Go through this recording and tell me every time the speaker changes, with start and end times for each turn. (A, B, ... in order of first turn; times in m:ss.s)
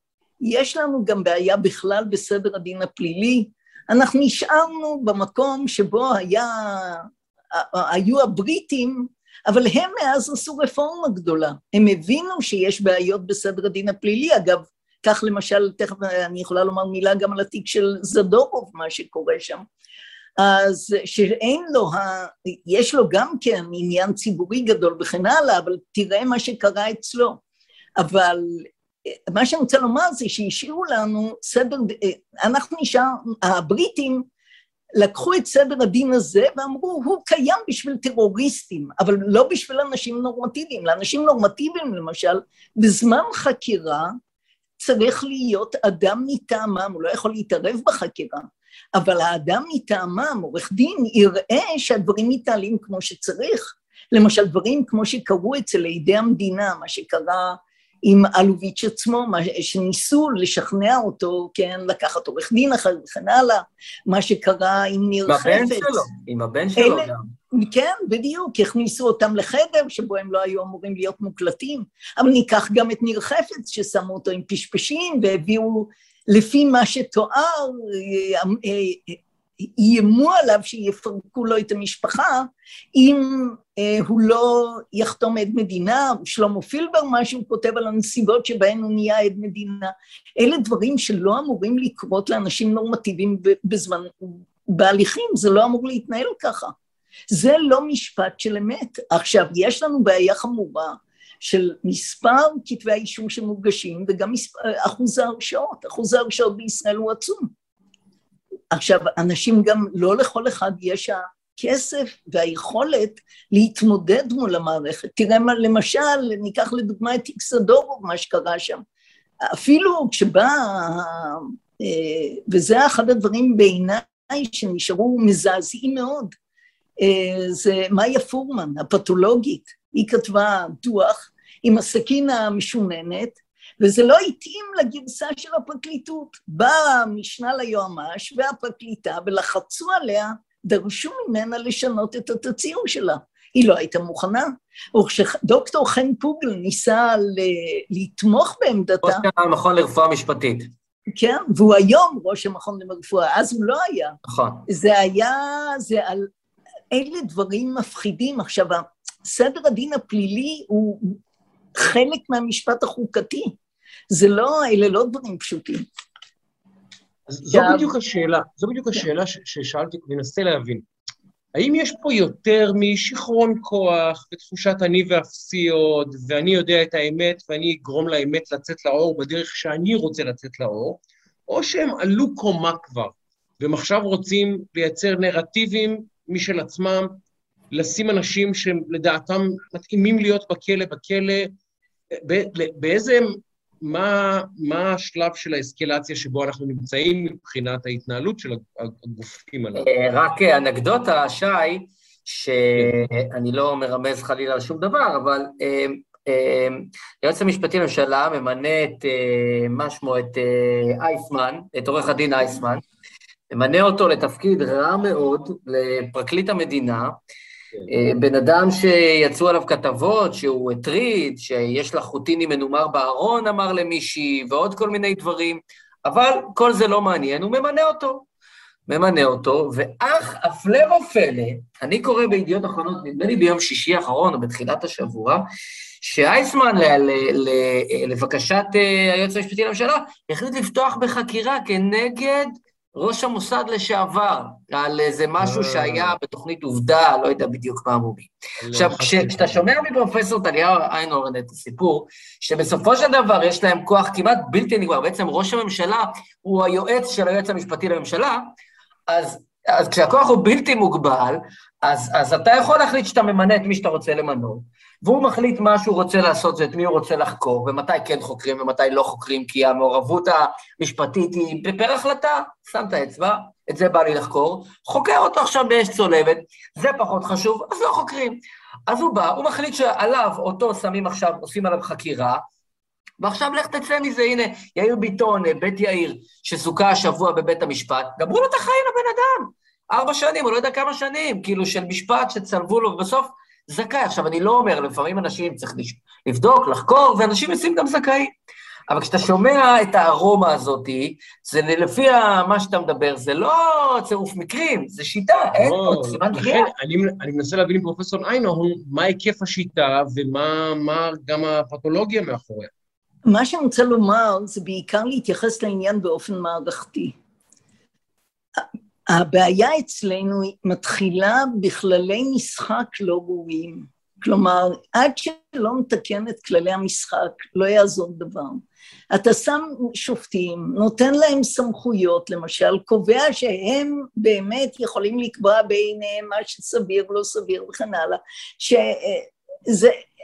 0:00.4-0:19.6 A
0:20.4-0:27.4 A
0:28.0-0:28.7 A
0:29.3-0:34.2 A
0:35.0-0:44.1 A
0:44.8-1:06.0 A
1:05.3-1:07.3 B
1:06.8-1:36.7 A
1:37.3-1:47.5 A
1:48.7-1:58.8 A
1:59.5-2:06.3 A
2:07.0-2:29.2 A
2:29.0-2:30.7 B
2:31.2-2:36.3 A
2:34.2-2:34.6 B
2:36.9-2:41.2 A
2:41.8-2:43.5 A
2:44.1-2:45.8 A
2:47.3-2:50.8 C
2:47.5-2:47.9 A
2:51.5-3:07.2 C
3:07.7-3:11.5 C
3:12.1-3:19.9 C
3:19.7-3:32.8 B
3:33.5-3:37.2 B
3:37.9-3:48.2 B
3:48.9-3:55.5 B
3:56.0-4:18.5 B
4:05.4-4:06.2 C
4:08.6-4:09.6 C
4:19.1-4:42.4 B
4:43.2-4:58.3 B
4:58.9-5:06.6 B
5:05.6-5:12.7 C
5:13.3-5:17.1 A
5:18.6-5:40.0 A